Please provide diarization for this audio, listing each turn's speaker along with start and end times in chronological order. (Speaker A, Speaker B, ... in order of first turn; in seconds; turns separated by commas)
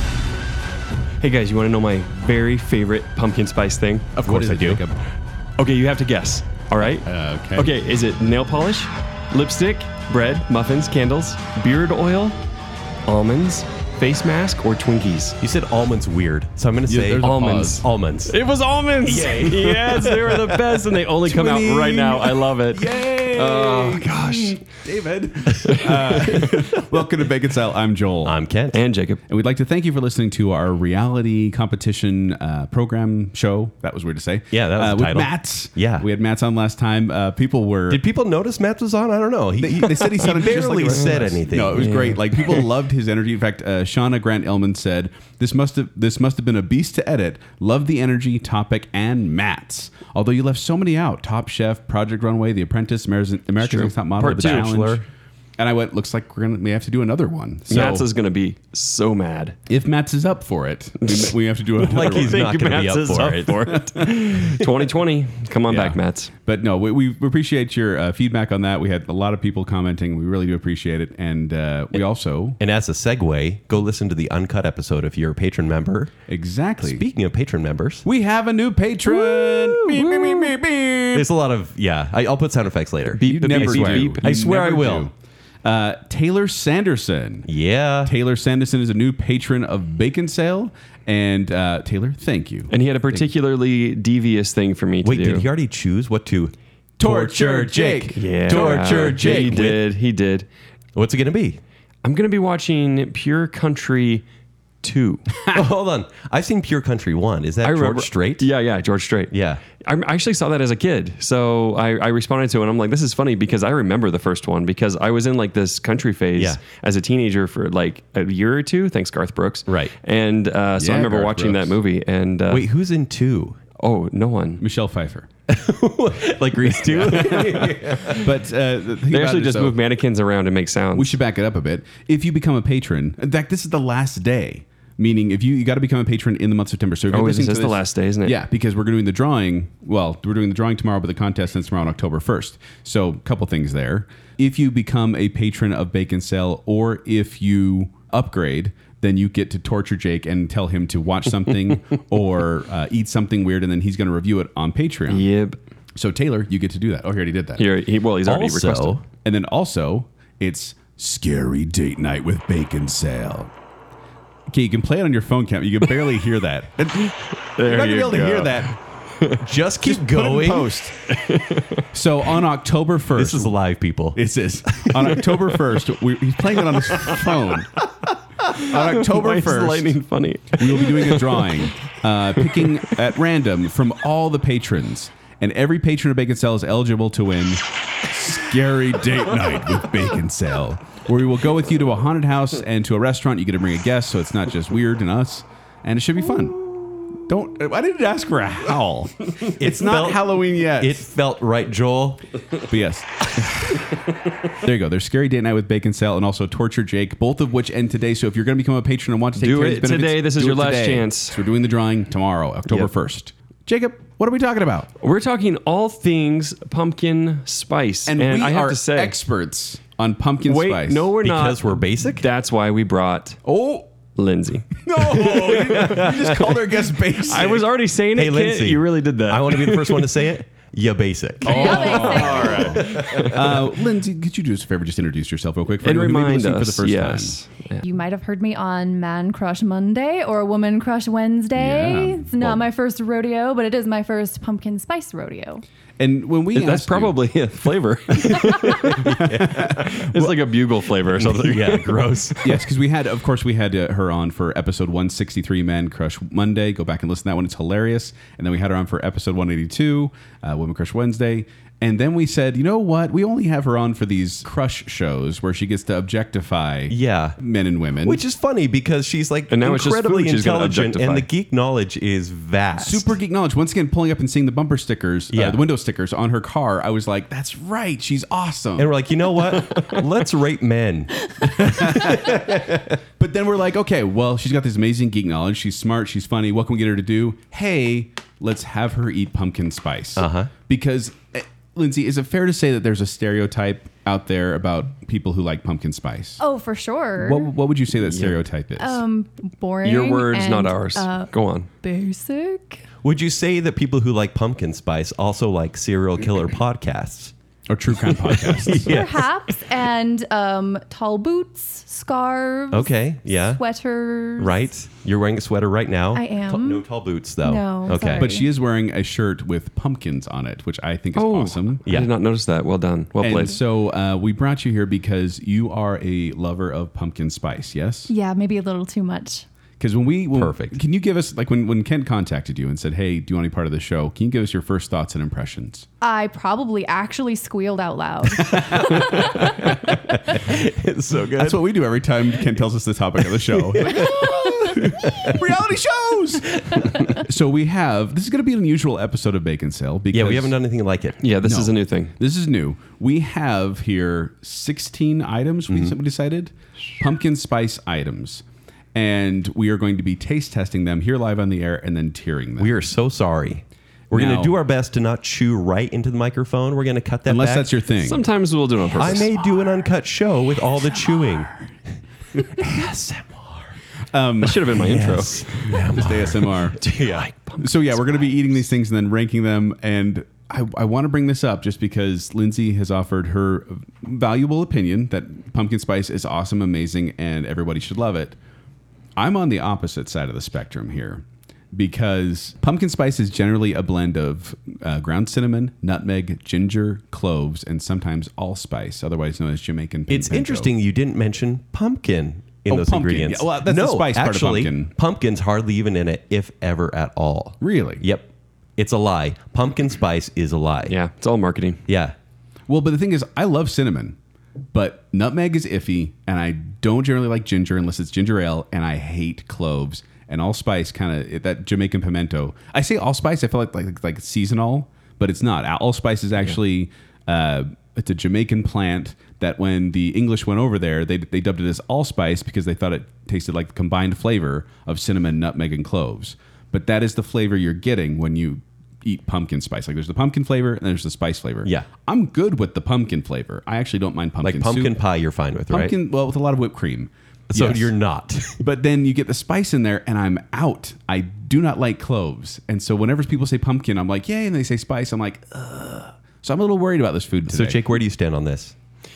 Speaker A: 1.2-4.8, Speaker B: 4.2-5.0, Speaker A: 5.6-12.4, Speaker B: 7.0-7.7, Speaker A: 13.1-15.4, Speaker C: 15.4-18.3, Speaker B: 16.9-17.8, Speaker A: 17.2-24.6, Speaker C: 19.0-20.6, Speaker B: 21.2-28.4, Speaker A: 25.7-26.6, Speaker C: 28.2-28.8, Speaker A: 28.7-29.2, Speaker B: 29.3-38.0, Speaker C: 34.5-36.0, Speaker C: 37.9-42.1, Speaker B: 39.5-55.0, Speaker A: 41.8-42.4, Speaker A: 53.6-54.9, Speaker C: 54.2-55.0, Speaker B: 55.6-58.1, Speaker A: 57.7-59.6, Speaker B: 59.7-62.9, Speaker A: 61.0-66.3, Speaker C: 61.8-63.8, Speaker B: 63.6-64.3, Speaker B: 65.7-72.6, Speaker C: 72.6-76.1, Speaker B: 76.3-77.0, Speaker C: 76.8-78.1, Speaker B: 78.0-81.3, Speaker A: 79.1-80.5, Speaker C: 81.1-85.1, Speaker A: 83.1-84.4, Speaker B: 83.2-85.1, Speaker B: 85.6-87.5, Speaker C: 87.5-88.1, Speaker B: 88.0-93.3, Speaker A: 92.7-95.5, Speaker C: 95.0-99.8, Speaker B: 97.0-99.7, Speaker A: 98.1-100.5, Speaker C: 101.0-101.6, Speaker A: 102.0-104.2, Speaker A: 104.8-105.3, Speaker C: 105.5-108.5, Speaker A: 107.6-122.7, Speaker C: 109.3-109.6, Speaker C: 119.7-119.9, Speaker B: 120.8-121.8, Speaker C: 122.5-123.6, Speaker A: 123.8-124.6, Speaker B: 124.6-125.3, Speaker C: 125.5-128.3, Speaker B: 126.6-129.8, Speaker A: 129.1-131.2, Speaker B: 130.9-155.2, Speaker A: 137.1-138.4, Speaker A: 155.1-155.6, Speaker B: 156.0-157.7, Speaker A: 157.6-159.0, Speaker C: 158.2-159.0, Speaker B: 159.2-163.5, Speaker B: 164.5-167.3, Speaker A: 167.6-171.8, Speaker C: 167.6-168.7, Speaker C: 169.4-170.7, Speaker B: 169.8-171.0, Speaker B: 171.9-173.6, Speaker C: 173.2-174.2, Speaker B: 174.2-177.7, Speaker A: 176.7-177.4, Speaker A: 178.5-181.7, Speaker B: 178.6-180.0, Speaker B: 180.5-201.1, Speaker A: 182.5-182.8, Speaker C: 199.5-202.3, Speaker B: 202.7-203.8, Speaker B: 204.5-214.9, Speaker A: 209.4-211.4, Speaker A: 215.0-219.2, Speaker B: 218.1-221.1, Speaker A: 220.4-223.4, Speaker C: 221.2-222.3, Speaker B: 223.4-223.9, Speaker A: 224.2-226.6, Speaker B: 224.8-227.7, Speaker C: 225.8-226.1, Speaker A: 227.2-230.2, Speaker C: 228.1-233.4, Speaker B: 231.4-237.4, Speaker D: 231.4-232.9, Speaker A: 231.5-233.5, Speaker A: 235.8-237.8, Speaker D: 237.8-245.6, Speaker B: 241.6-242.6, Speaker B: 246.0-247.2, Speaker A: 246.5-252.6, Speaker B: 248.4-250.4, Speaker C: 248.9-249.7, Speaker C: 251.1-252.4, Speaker B: 252.4-268.2, Speaker C: 266.9-267.4, Speaker C: 268.0-273.1, Speaker A: 269.5-271.3, Speaker B: 272.8-278.9, Speaker C: 275.3-275.6, Speaker C: 278.8-283.0, Speaker B: 281.4-282.6, Speaker B: 283.2-296.4, Speaker C: 290.2-290.5, Speaker D: 296.4-297.5, Speaker B: 297.2-299.0, Speaker A: 298.1-298.4, Speaker D: 298.8-302.8, Speaker A: 299.8-301.7, Speaker C: 303.0-307.3, Speaker B: 307.7-309.1, Speaker C: 308.0-309.3, Speaker D: 308.8-314.7, Speaker C: 312.7-313.6, Speaker C: 314.4-318.3, Speaker D: 316.1-316.9, Speaker D: 317.4-318.5, Speaker B: 317.9-321.8, Speaker A: 321.1-323.6, Speaker C: 321.9-322.1, Speaker B: 323.2-328.1, Speaker D: 328.1-329.5, Speaker B: 329.8-335.9, Speaker C: 330.4-330.8, Speaker D: 336.0-339.7, Speaker B: 338.4-339.7, Speaker C: 339.1-341.6, Speaker B: 341.4-350.6, Speaker C: 343.5-345.4, Speaker C: 346.7-347.2, Speaker C: 350.1-351.2, Speaker A: 351.2-352.1, Speaker B: 351.4-358.4, Speaker C: 355.7-355.9, Speaker B: 358.9-362.8, Speaker C: 362.6-367.7, Speaker B: 364.1-364.6, Speaker B: 367.3-368.3, Speaker A: 368.0-369.4, Speaker C: 369.0-371.5, Speaker B: 370.9-371.4, Speaker C: 372.5-373.7, Speaker B: 374.1-376.8, Speaker A: 374.4-375.8, Speaker C: 374.8-377.3, Speaker A: 376.9-378.1, Speaker B: 377.6-388.4, Speaker B: 389.2-400.7, Speaker C: 400.1-411.0, Speaker B: 402.7-404.9, Speaker B: 407.6-408.0, Speaker A: 410.9-411.8, Speaker C: 411.9-412.1, Speaker B: 412.7-414.2, Speaker B: 414.7-445.0, Speaker C: 444.4-445.9, Speaker B: 445.7-447.9, Speaker C: 447.5-448.6, Speaker B: 448.6-457.8, Speaker C: 457.5-458.7